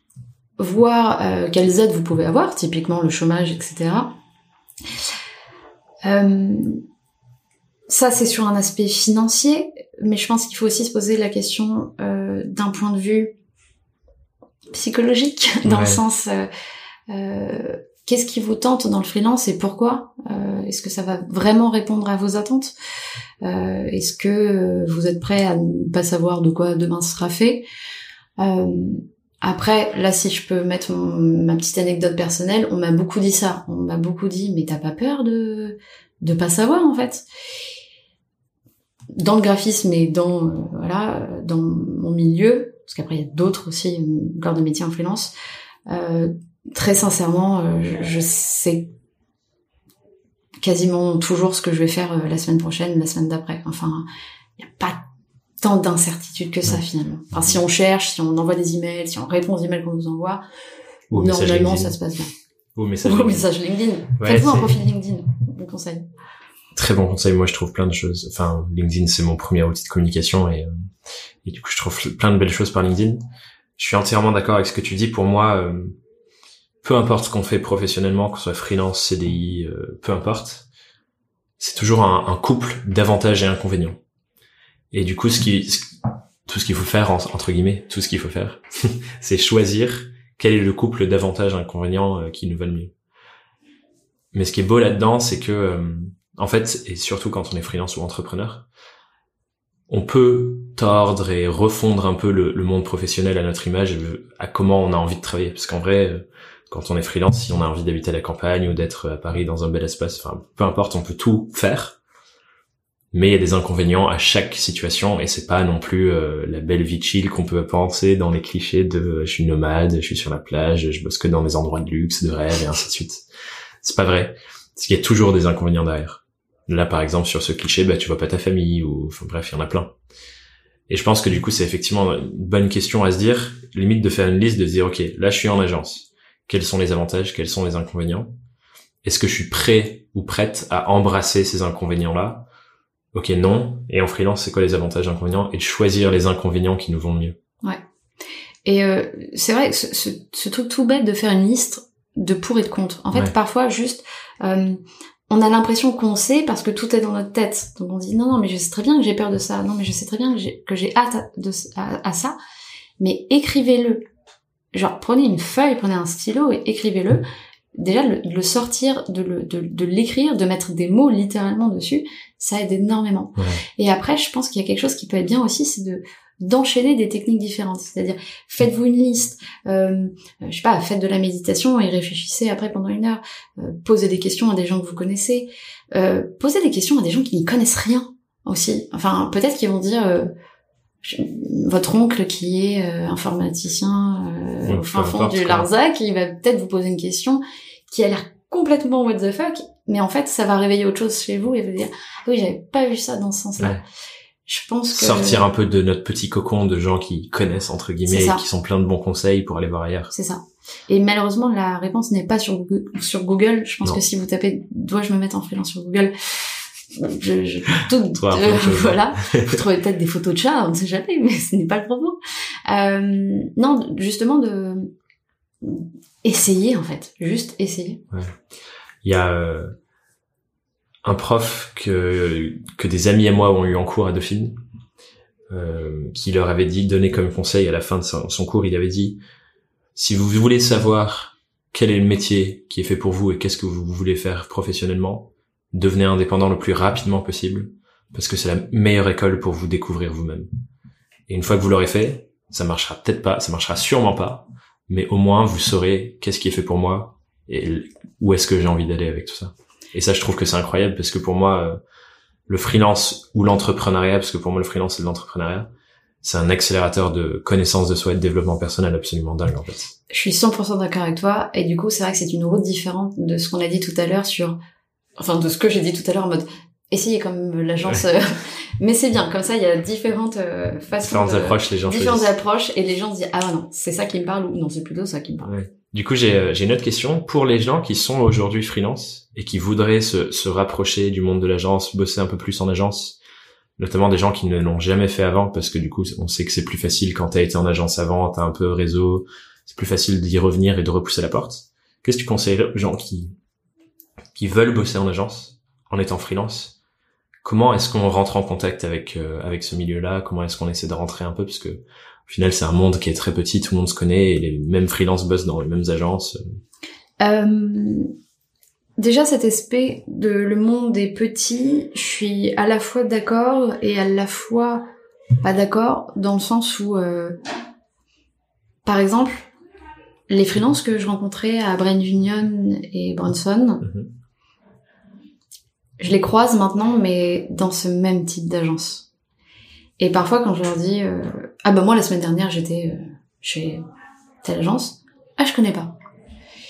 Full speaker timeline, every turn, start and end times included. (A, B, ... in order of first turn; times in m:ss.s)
0:00.6-0:04.1 A
0:06.0-0:06.8 A
0:07.9-0:13.3 A
0:14.7-0:16.5 A
0:15.6-0:16.0 B
0:17.1-0:22.7 A
0:23.4-0:27.6 A
0:28.4-0:37.2 A
0:39.1-0:45.3 A
0:45.9-0:48.9 A
0:50.6-0:54.0 A
0:54.6-0:55.0 A
0:55.6-1:00.4 A
1:01.1-1:02.0 B
1:01.1-1:02.3 A
1:02.8-1:03.5 B
1:03.0-1:06.0 A
1:04.2-1:04.8 B
1:06.7-1:10.7 B
1:11.4-1:13.2 B
1:13.8-1:15.9 B
1:16.8-1:20.6 B
1:21.6-1:24.0 B
1:24.9-1:32.9 B
1:34.3-1:38.7 B
1:39.9-1:52.0 B
1:53.1-2:03.2 B
2:03.8-2:09.9 B
2:10.9-2:18.3 B
2:19.0-2:22.5 B
2:23.1-2:27.4 B
2:28.6-2:42.4 A
2:43.0-2:44.0 A
2:44.7-2:47.2 A
2:47.8-3:10.3 A
2:53.4-2:53.6 B
3:11.0-3:23.8 A
3:14.6-3:15.7 B
3:24.5-3:25.4 A
3:24.9-3:30.1 B
3:28.1-3:28.4 A
3:30.1-3:44.9 A
3:38.0-3:39.6 B
3:45.6-3:48.0 A
3:48.1-3:48.4 B
3:49.0-3:49.7 B
3:51.0-3:54.6 B
3:55.5-3:59.2 B
4:00.0-4:10.5 B
4:11.3-4:21.8 B
4:22.5-4:25.7 B
4:26.2-4:29.9 B
4:30.1-4:34.6 A
4:35.2-4:45.5 A
4:41.0-4:42.3 B
4:45.4-4:53.2 B
4:53.8-5:03.3 B
5:04.3-5:06.7 B
5:07.4-5:16.4 B
5:17.2-5:18.1 A
5:19.0-5:24.8 A
5:25.4-5:27.4 A
5:28.8-5:29.5 A
5:30.3-5:33.8 A
5:33.8-5:34.1 B
5:36.0-5:39.1 A
5:40.0-5:43.8 A
5:44.4-5:46.0 A